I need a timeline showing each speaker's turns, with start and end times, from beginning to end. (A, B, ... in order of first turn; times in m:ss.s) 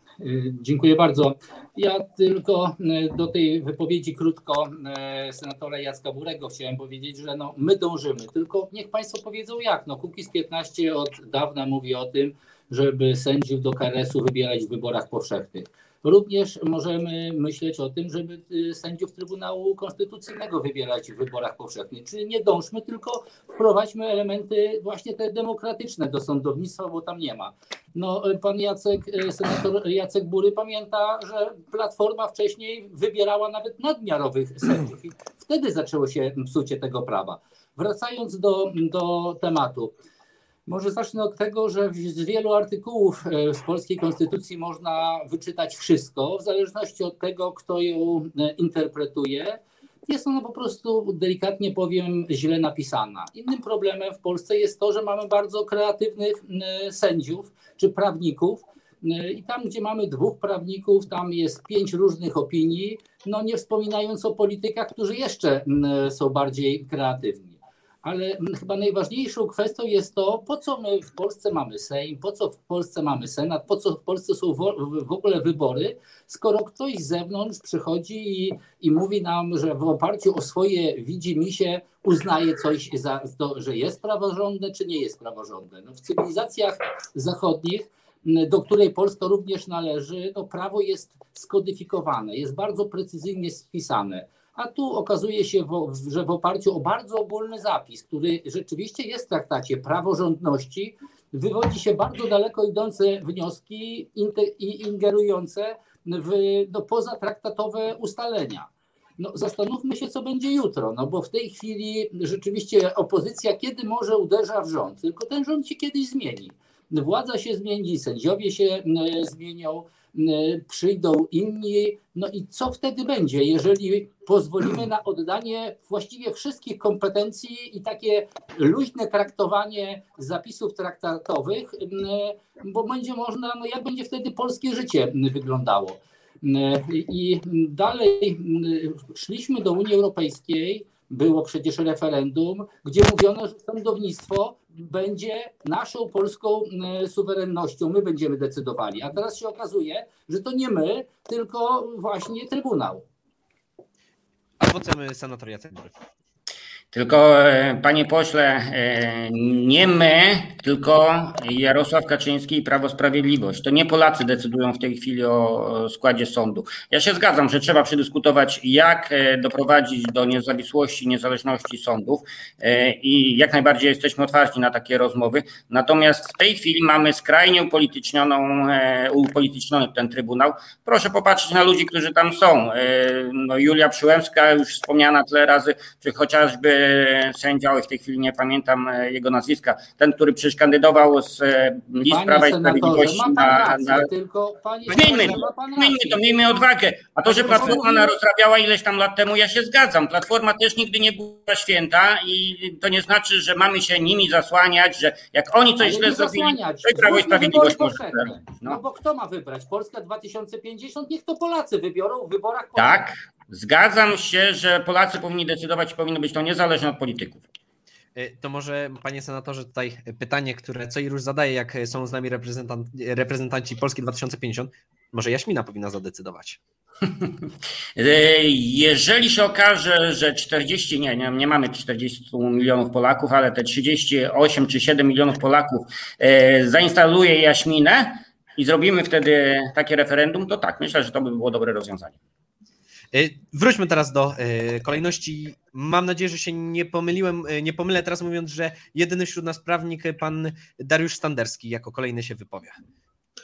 0:00.2-0:39.9 A
0:40.7-2:33.0 A
2:34.6-2:35.9 B
2:36.9-3:14.1 C
3:12.0-3:16.6 A
3:14.9-3:28.8 C
3:17.2-3:18.1 A
3:25.8-3:33.1 A
3:32.8-3:37.4 C
3:38.1-3:46.6 B
3:48.0-4:02.2 C
4:03.1-4:12.8 B